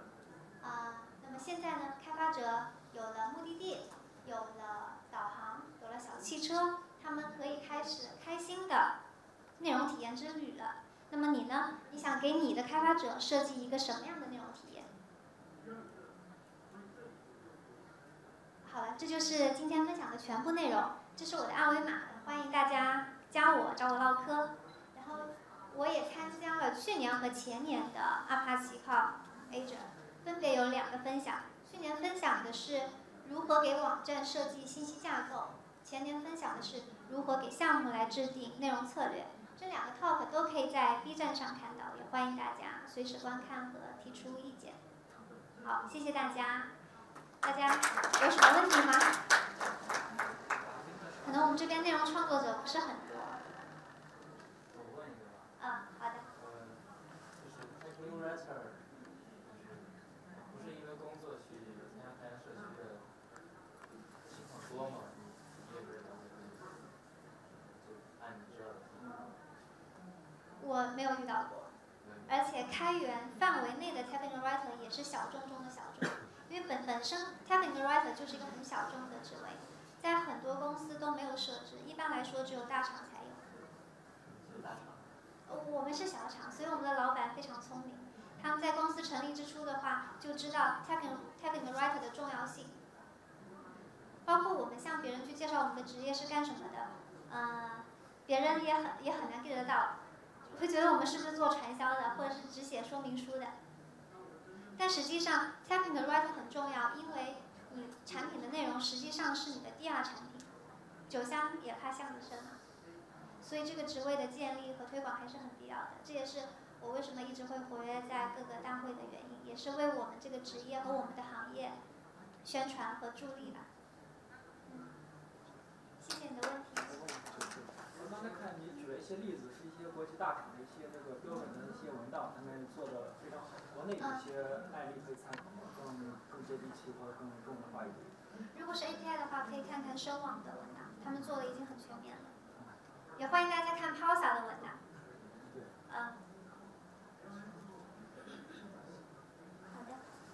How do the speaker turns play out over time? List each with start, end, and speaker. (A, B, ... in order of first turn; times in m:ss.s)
0:00.6-0:08.9 A
0:09.6-0:14.9 A
0:18.6-0:44.8 A
0:45.6-0:46.7 A
0:47.4-0:49.2 A
0:50.6-0:51.3 B
0:51.2-0:53.4 A
0:54.7-0:55.5 B
0:55.6-0:56.3 A
0:56.3-0:56.8 B
0:57.4-0:58.8 B
0:59.4-1:03.0 B
1:04.2-1:06.8 B
1:07.8-1:09.3 B
1:10.6-1:11.7 A
1:12.0-1:12.3 B
1:12.3-1:23.4 A
1:24.3-1:25.0 B
1:25.5-1:32.8 A
1:34.3-1:39.9 A
1:40.5-1:43.5 A
1:44.8-1:50.5 A
1:51.1-1:52.6 A
1:53.4-2:01.8 A
2:02.4-2:03.6 A
2:06.0-2:07.0 A
2:06.9-2:18.1 C
2:14.0-2:14.2 A
2:18.6-2:22.3 A
2:23.2-2:24.8 A
2:25.5-2:25.7 C
2:25.9-2:26.2 A
2:29.7-2:30.0 A